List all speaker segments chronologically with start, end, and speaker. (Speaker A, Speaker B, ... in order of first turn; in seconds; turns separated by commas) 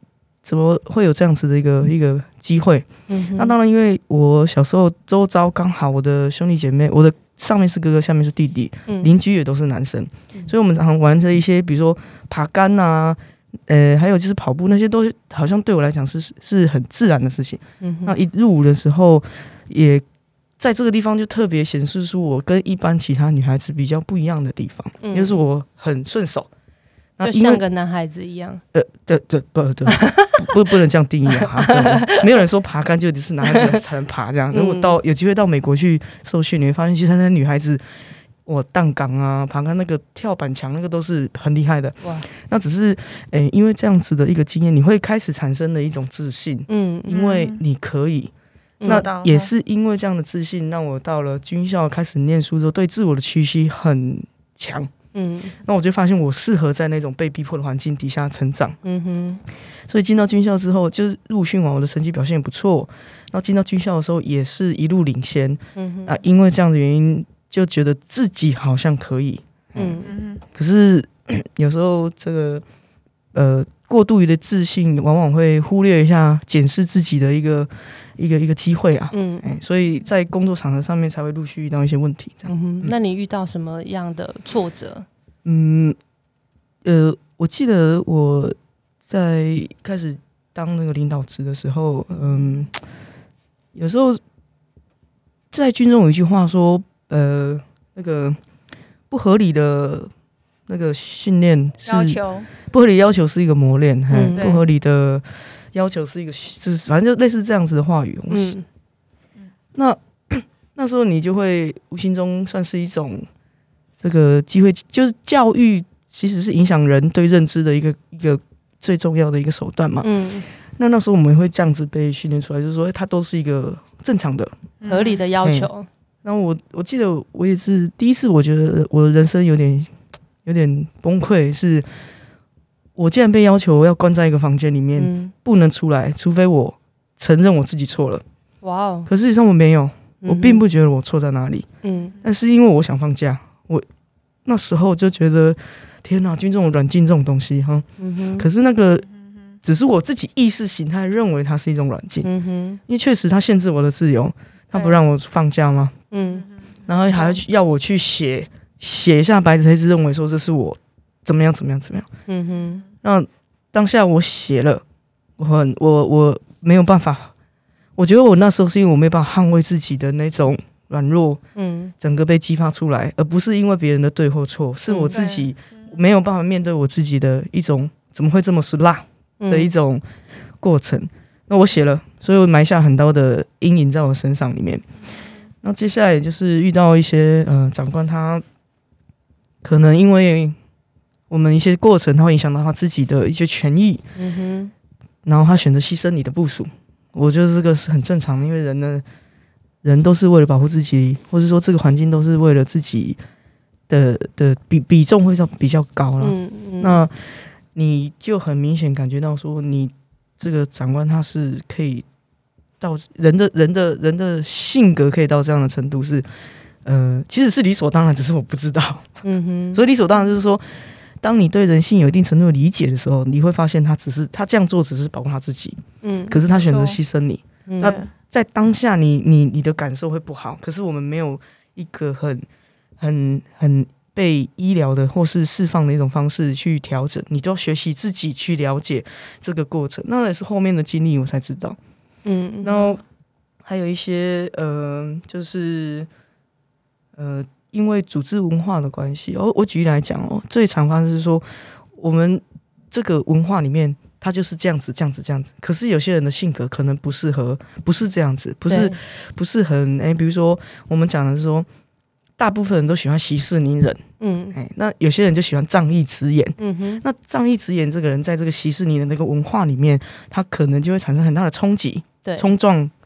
Speaker A: 0.4-20.0, Speaker B: 3.1-3.5, Speaker B: 8.9-9.1, Speaker B: 17.8-18.2, Speaker A: 20.6-26.5, Speaker B: 25.0-25.4, Speaker A: 27.2-27.6, Speaker B: 27.2-28.6, Speaker A: 28.7-37.8, Speaker B: 29.9-30.5, Speaker B: 31.3-32.2, Speaker B: 33.4-33.8, Speaker B: 34.5-35.0, Speaker A: 38.5-48.3, Speaker B: 46.7-47.1, Speaker C: 47.1-47.6, Speaker B: 48.8-49.1, Speaker C: 48.9-49.5, Speaker A: 48.9-54.9, Speaker B: 55.1-55.6, Speaker A: 55.6-58.8, Speaker B: 58.8-59.4, Speaker A: 59.9-70.0, Speaker B: 65.8-66.2, Speaker B: 69.8-70.1, Speaker C: 70.0-70.4, Speaker A: 70.5-72.6, Speaker A: 73.3-82.9, Speaker B: 79.1-79.5, Speaker B: 82.5-85.1, Speaker A: 85.5-86.0, Speaker A: 86.8-88.6, Speaker A: 89.1-92.7, Speaker A: 93.7-94.2, Speaker A: 95.5-98.4, Speaker A: 99.1-100.1, Speaker A: 100.7-108.6, Speaker C: 101.9-102.5, Speaker B: 104.1-104.5, Speaker C: 104.3-104.6, Speaker B: 108.3-108.7, Speaker A: 109.8-113.3, Speaker A: 114.0-120.1, Speaker B: 120.0-120.5, Speaker A: 120.8-124.5, Speaker C: 124.8-125.2, Speaker B: 124.9-125.9, Speaker A: 125.4-125.7, Speaker A: 126.2-129.9, Speaker A: 130.4-131.9, Speaker A: 133.0-138.2, Speaker B: 135.0-135.3, Speaker B: 138.6-139.1, Speaker A: 139.1-141.7, Speaker B: 140.2-140.6, Speaker B: 141.8-142.2, Speaker A: 142.2-143.9, Speaker A: 144.5-147.9, Speaker B: 148.0-148.5, Speaker A: 148.4-149.1, Speaker C: 149.3-149.5, Speaker A: 149.6-152.3, Speaker B: 152.2-152.8, Speaker A: 152.9-156.0, Speaker C: 154.7-155.0, Speaker B: 156.1-156.5, Speaker C: 156.4-157.4, Speaker A: 156.9-162.1, Speaker B: 162.3-162.8, Speaker A: 163.0-164.8, Speaker A: 165.4-167.3, Speaker A: 168.0-171.4, Speaker B: 171.6-171.9, Speaker A: 172.0-180.0, Speaker C: 174.9-175.9, Speaker B: 179.4-179.7, Speaker A: 180.6-184.8, Speaker A: 185.6-188.4, Speaker A: 189.6-190.6, Speaker A: 191.3-194.0, Speaker B: 194.2-194.7, Speaker A: 195.2-199.0, Speaker A: 199.8-203.2, Speaker A: 203.9-212.1, Speaker B: 206.2-207.0, Speaker A: 212.8-216.3, Speaker A: 216.8-219.1, Speaker B: 219.2-219.8, Speaker A: 219.7-232.5, Speaker B: 226.0-226.4, Speaker C: 226.3-227.0, Speaker B: 227.7-228.0, Speaker C: 227.8-228.1, Speaker A: 233.0-241.8, Speaker B: 242.2-242.9, Speaker A: 242.6-243.0, Speaker A: 243.6-246.1, Speaker A: 247.2-261.7, Speaker B: 258.7-259.0, Speaker A: 262.4-272.9, Speaker B: 264.2-264.6, Speaker B: 266.6-267.0